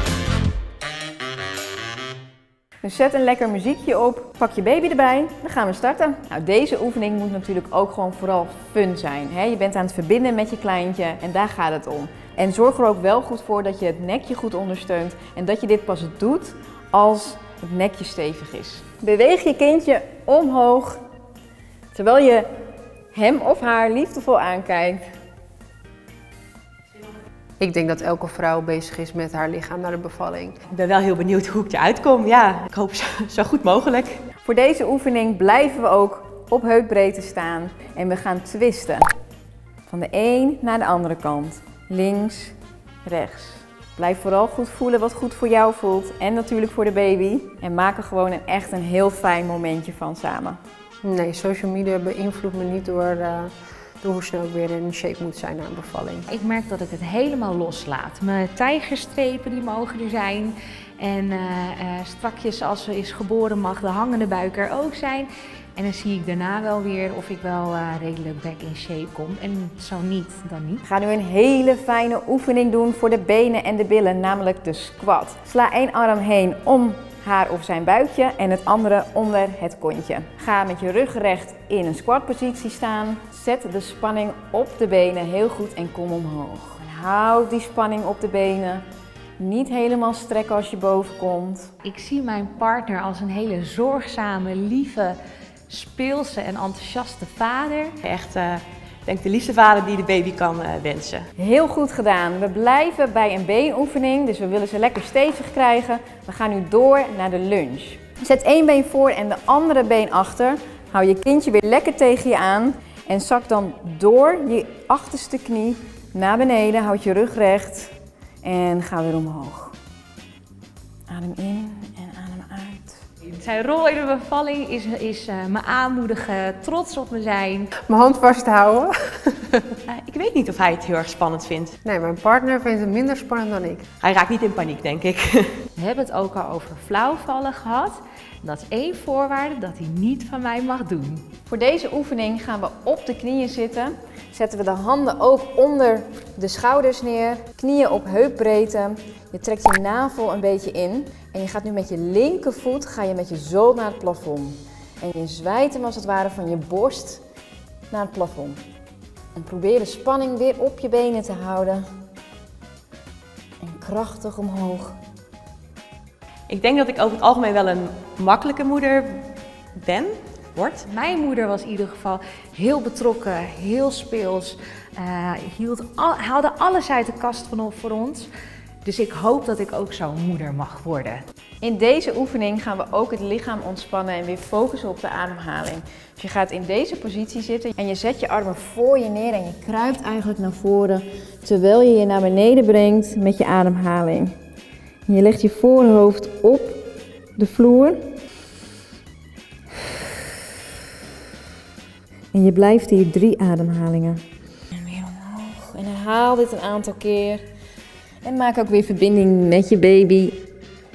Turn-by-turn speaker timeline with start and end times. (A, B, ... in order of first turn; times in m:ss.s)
0:02.8-0:21.0 A
0:21.9-0:22.5 A
0:23.1-0:25.0 A
0:27.6-0:30.6 B
0:30.7-0:34.2 C
0:34.4-0:39.1 A
0:39.9-0:50.6 A
0:51.0-0:56.3 B
0:56.3-1:10.8 D
1:10.8-1:28.8 A
1:29.4-1:31.7 A
1:31.8-1:35.2 D
1:35.7-1:37.9 D
1:38.0-1:41.3 C
1:41.4-1:59.7 A
2:01.1-2:03.0 A
2:03.3-2:07.7 D
2:07.9-2:09.6 B
2:09.9-2:11.8 C
2:11.8-2:13.8 B
2:14.0-2:15.6 C
2:15.8-2:21.2 D
2:21.5-2:37.2 A
2:37.9-2:38.6 A
2:39.3-2:41.8 A
2:43.6-2:45.0 A
2:46.5-2:49.2 C
2:49.7-2:50.8 C
2:50.8-2:58.3 D
2:58.8-3:01.2 D
3:01.6-3:14.3 A
3:15.1-3:16.8 A
3:17.4-3:18.0 A
3:22.3-3:24.2 A
3:24.7-3:27.4 A
3:28.2-3:30.4 A